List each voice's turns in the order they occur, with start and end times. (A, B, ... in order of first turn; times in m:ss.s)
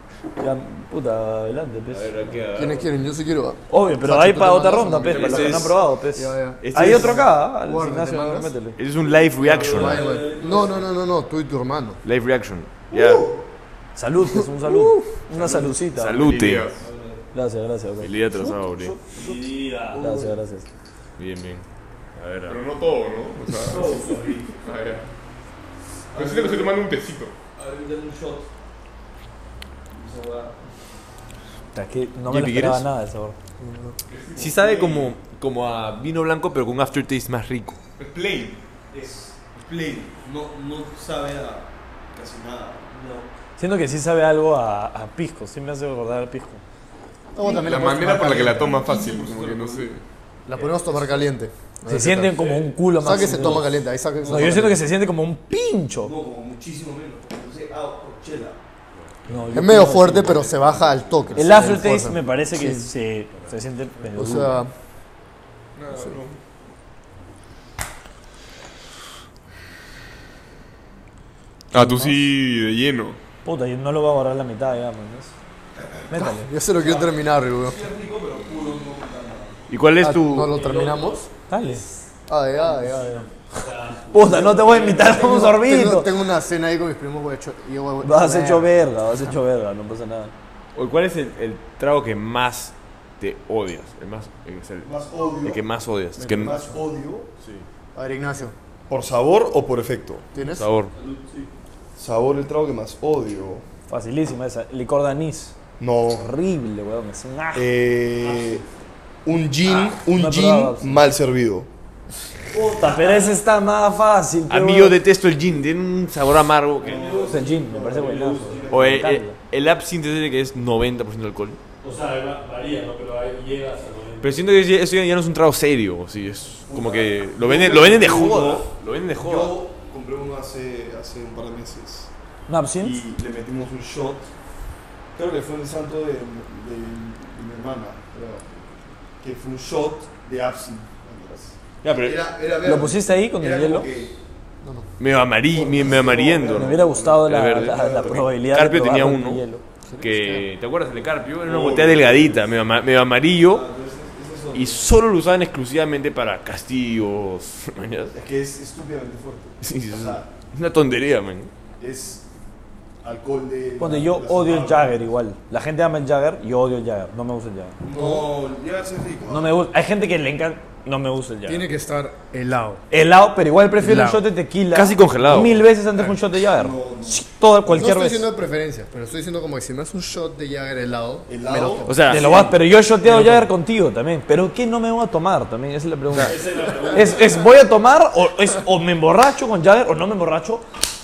0:00.4-0:02.4 A
0:01.9-0:02.9 B
0:02.5-0:05.5 C
0:03.7-0:08.8 A
0:05.1-0:05.7 D
0:05.1-0:05.8 B
0:06.1-0:08.5 C
0:06.6-0:07.3 B
0:08.8-0:10.1 B
0:09.2-0:10.9 E
0:09.7-0:12.0 C
0:12.0-0:13.3 B
0:14.0-0:16.4 A
0:14.2-0:14.9 C
0:15.9-0:16.7 B
0:16.1-0:16.8 D
0:16.8-0:17.2 E
0:17.3-0:18.1 A
0:18.0-0:19.0 B
0:19.1-0:20.1 E
0:19.1-0:20.4 F
0:20.0-0:20.7 A
0:21.2-0:21.6 B
0:22.2-0:22.6 B
0:22.5-0:24.0 D
0:23.5-0:24.5 E
0:24.6-0:25.1 D
0:26.1-0:27.3 D
0:26.1-0:26.8 F
0:27.6-0:28.3 E
0:27.6-0:28.4 F
0:30.0-0:30.6 F
0:31.7-0:33.4 A
0:32.3-0:32.8 B
0:33.6-0:34.0 C
0:34.1-0:35.1 D
0:34.4-0:37.8 B
0:38.0-0:38.6 D
0:38.9-0:39.3 E
0:39.5-0:43.2 F
0:42.9-0:43.3 E
0:43.6-0:46.6 A
0:47.3-0:48.9 C
0:47.4-0:50.0 D
0:48.4-0:49.9 F
0:50.5-0:52.4 C
0:50.6-0:51.2 E
0:51.8-0:53.7 A
0:52.3-0:53.2 E
0:53.0-0:54.8 C
0:54.2-0:54.8 F
0:54.2-0:56.1 A
0:56.0-0:58.6 F
0:58.9-1:00.6 B
0:59.3-1:00.4 A
0:59.5-1:02.9 C
1:00.4-1:01.4 F
1:01.2-1:01.7 B
1:01.3-1:04.6 A
1:04.1-1:04.7 C
1:05.7-1:06.4 D
1:05.9-1:06.2 C
1:11.7-1:13.2 D
1:11.7-1:12.2 A
1:13.4-1:15.3 A
1:16.1-1:16.5 A
1:16.1-1:17.8 C
1:16.8-1:19.6 F
1:19.7-1:20.5 B
1:20.0-1:21.3 C
1:20.5-1:22.1 E
1:21.5-1:21.8 A
1:22.3-1:23.3 C
1:22.6-1:25.5 E
1:24.1-1:26.1 A
1:25.1-1:28.7 C
1:28.0-1:30.3 A
1:30.7-1:34.9 B
1:34.8-1:35.7 F
1:35.4-1:36.6 B
1:36.2-1:36.7 C
1:36.2-1:37.3 F
1:37.4-1:37.6 B
1:37.9-1:38.5 C
1:38.9-1:40.3 F
1:40.3-1:40.7 C
1:40.4-1:40.9 B
1:40.9-1:41.5 E
1:42.0-1:43.6 F
1:43.9-1:45.6 A
1:45.8-1:46.3 F
1:46.1-1:47.7 A
1:47.5-1:48.6 F
1:48.2-1:48.6 E
1:49.2-1:51.7 F
1:49.9-1:51.0 A
1:52.5-1:53.4 E
1:52.6-1:55.0 A
1:54.5-1:57.1 B
1:56.8-1:58.8 E
1:56.8-1:59.1 F
1:57.2-1:59.4 A
1:58.7-2:01.6 B
2:01.8-2:04.4 E
2:04.2-2:09.6 B
2:06.5-2:12.1 F
2:12.5-2:13.0 A
2:12.8-2:14.3 F
2:15.1-2:24.2 F
2:21.8-2:22.2 B
2:22.6-2:23.9 A
2:24.6-2:24.9 C
2:25.0-2:29.4 B
2:25.4-2:28.3 F
2:26.5-2:29.6 A
2:29.8-2:30.5 C
2:30.0-2:33.7 B
2:31.4-2:32.6 F
2:33.4-2:34.9 F
2:34.5-2:38.1 B
2:38.1-2:40.3 F
2:39.6-2:41.5 B
2:41.8-2:42.2 F
2:43.0-2:45.1 F
2:43.8-2:48.2 A
2:47.8-2:49.5 F
2:49.3-2:51.7 A
2:51.4-2:52.8 C
2:52.9-2:58.3 A
2:53.8-2:54.2 C
2:54.7-2:55.6 B
2:56.0-2:57.3 F
2:57.7-3:01.9 C
3:01.3-3:02.5 F
3:01.8-3:02.4 B
3:02.0-3:10.6 A
3:06.2-3:07.4 E